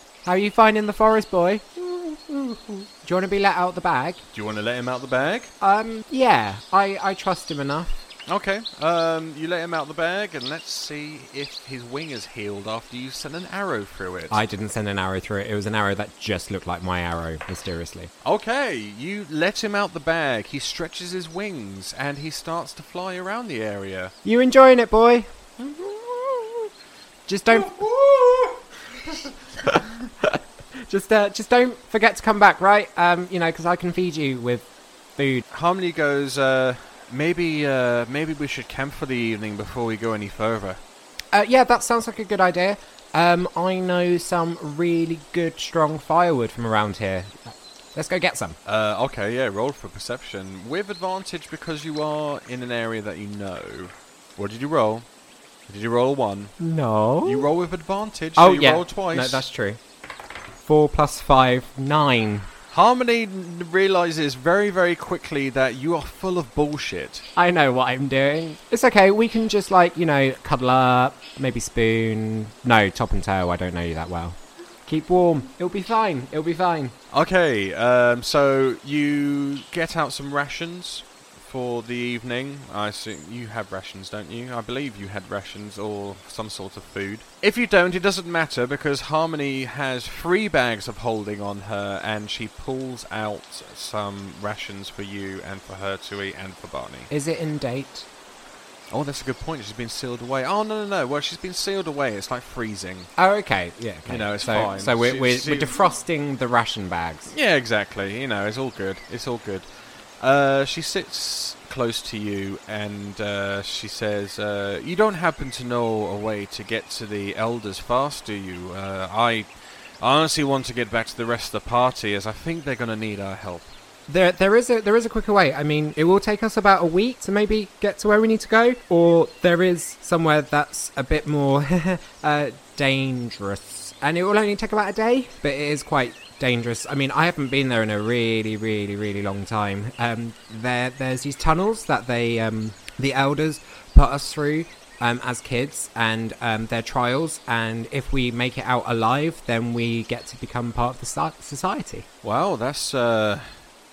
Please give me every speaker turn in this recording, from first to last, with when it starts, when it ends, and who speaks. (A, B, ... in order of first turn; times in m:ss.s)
0:00.2-0:04.2 A
0:04.3-0:05.5 B
0:05.6-0:08.0 A
0:08.3-0:14.4 B
0:14.3-0:18.1 A
0:18.2-0:24.1 B
0:24.2-0:25.3 A
0:25.6-0:26.4 B
0:27.3-0:27.8 A
0:27.5-0:29.2 B
0:29.6-0:35.4 A
0:35.5-0:40.8 B
0:41.3-0:48.6 A
0:48.7-0:55.1 B
0:55.7-0:56.6 B
0:56.6-0:57.5 A
0:57.2-0:59.4 B
0:58.4-0:59.8 A
1:00.6-1:02.5 A
1:02.7-1:07.3 B
1:07.4-1:17.0 A
1:17.1-1:37.1 B
1:37.1-1:38.1 A
1:38.9-1:43.1 B
1:43.2-1:47.3 A
1:44.1-1:45.9 B
1:47.3-1:49.7 B
1:50.2-1:59.5 B
2:00.0-2:03.7 B
2:04.1-2:32.1 A
2:32.2-2:33.5 B